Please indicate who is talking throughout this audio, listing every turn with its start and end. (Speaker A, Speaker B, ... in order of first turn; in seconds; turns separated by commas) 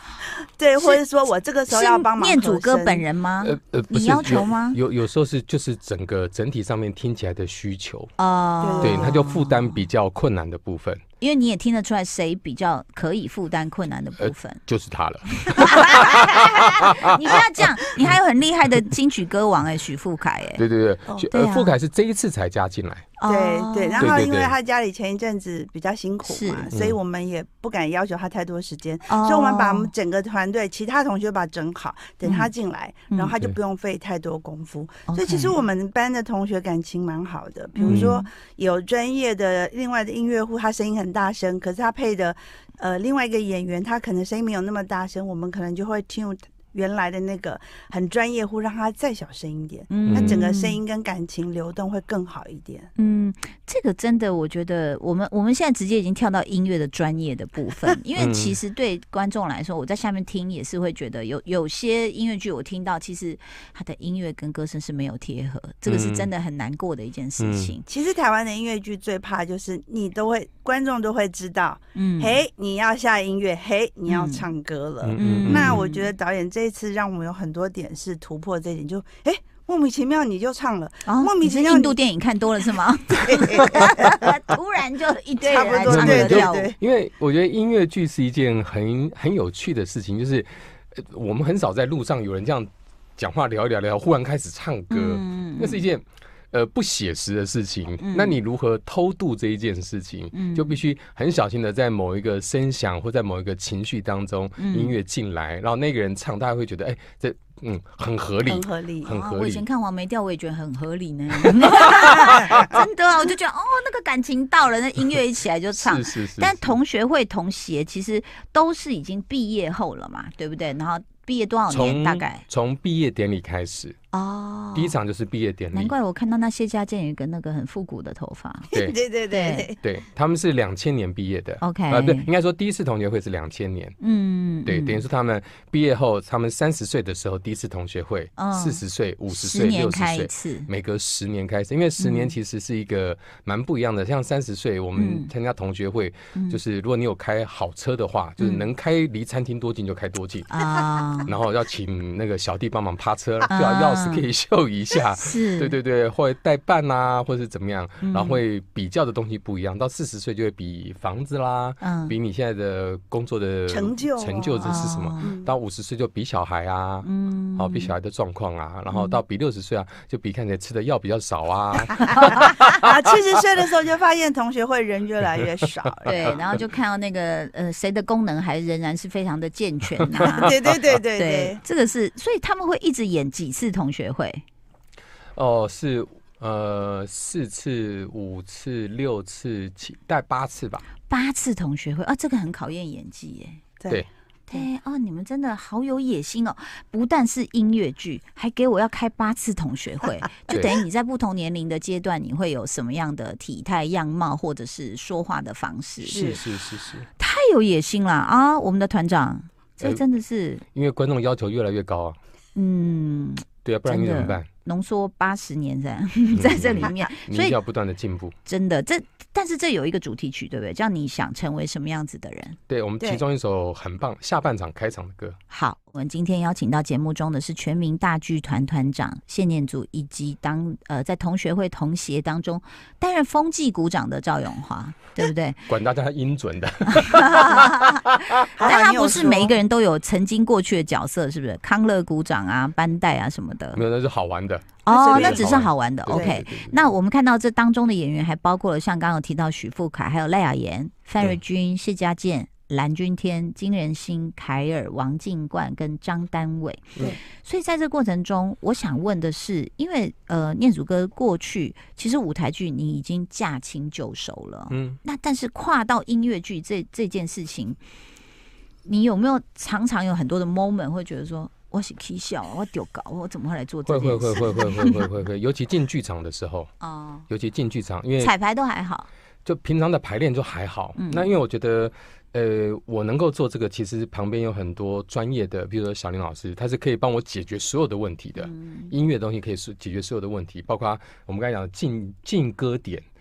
Speaker A: 0.3-3.1, Speaker B: 1.7-4.8, Speaker C: 3.4-8.1, Speaker B: 8.2-9.8, Speaker A: 8.6-9.2, Speaker C: 8.8-11.0, Speaker B: 11.2-14.6, Speaker C: 14.2-17.1, Speaker B: 15.5-20.6, Speaker C: 20.6-23.1, Speaker B: 21.3-21.8, Speaker B: 23.2-24.2, Speaker A: 23.3-52.9, Speaker C: 24.0-24.5, Speaker B: 26.2-26.7, Speaker B: 29.1-29.9, Speaker B: 32.2-32.5, Speaker B: 35.1-35.5, Speaker B: 37.8-38.2, Speaker C: 37.9-38.2, Speaker B: 49.9-50.8, Speaker C: 50.0-50.4, Speaker B: 53.0-67.8, Speaker C: 58.2-58.6, Speaker C: 65.9-66.3, Speaker C: 67.4-67.7, Speaker A: 67.9-82.0, Speaker B: 72.0-72.4, Speaker B: 74.1-74.5, Speaker C: 75.0-75.8, Speaker B: 75.2-76.1, Speaker B: 81.1-86.7, Speaker A: 82.7-84.2, Speaker A: 85.4-86.8, Speaker C: 85.9-109.7, Speaker B: 94.9-95.9, Speaker B: 98.0-98.4, Speaker B: 100.3-100.8, Speaker B: 104.6-105.0, Speaker A: 108.5-109.2, Speaker B: 109.1-122.4, Speaker C: 111.5-112.8, Speaker A: 112.0-112.8, Speaker C: 115.8-116.8, Speaker C: 121.7-124.0, Speaker B: 124.1-125.0, Speaker C: 124.8-125.9, Speaker B: 125.7-128.7, Speaker A: 128.7-129.8, Speaker B: 129.3-129.7, Speaker C: 129.8-134.0, Speaker B: 131.6-132.3, Speaker B: 134.0-135.0, Speaker C: 134.7-150.6, Speaker B: 138.4-140.7, Speaker B: 142.0-142.3, Speaker B: 144.9-145.3, Speaker B: 146.3-146.6, Speaker B: 148.4-148.7, Speaker B: 150.5-151.3, Speaker C: 151.2-172.7, Speaker B: 153.5-154.3, Speaker B: 155.2-155.8, Speaker B: 158.0-158.4, Speaker B: 161.8-162.2, Speaker A: 163.7-165.5, Speaker B: 164.6-165.3, Speaker B: 167.0-168.0, Speaker B: 168.9-169.2, Speaker A: 172.1-176.4, Speaker B: 172.1-172.5, Speaker C: 176.1-176.6, Speaker B: 176.1-180.6, Speaker C: 180.0-180.4, Speaker A: 180.2-181.6, Speaker B: 181.2-184.4, Speaker C: 185.3-190.9, Speaker B: 191.1-193.6, Speaker A: 193.8-194.7, Speaker B: 194.5-206.4, Speaker C: 200.5-200.8, Speaker A: 206.0-206.4, Speaker C: 206.1-207.1, Speaker B: 207.2-210.6, Speaker C: 210.7-212.2, Speaker B: 212.6-217.6, Speaker C: 213.7-214.5, Speaker C: 216.3-218.3, Speaker B: 218.4-222.6, Speaker C: 222.7-225.4, Speaker B: 225.5-235.7, Speaker C: 235.7-238.3, Speaker B: 236.9-243.8, Speaker A: 238.6-239.6, Speaker C: 243.7-246.8, Speaker B: 244.8-267.8, Speaker A: 244.9-245.5, Speaker A: 246.1-246.4, Speaker C: 264.7-265.0, Speaker B: 268.9-275.1, Speaker C: 273.9-276.7, Speaker B: 276.8-277.3, Speaker C: 277.3-278.3, Speaker B: 278.2-279.1, Speaker C: 279.4-293.1, Speaker B: 281.0-281.3, Speaker B: 288.4-288.9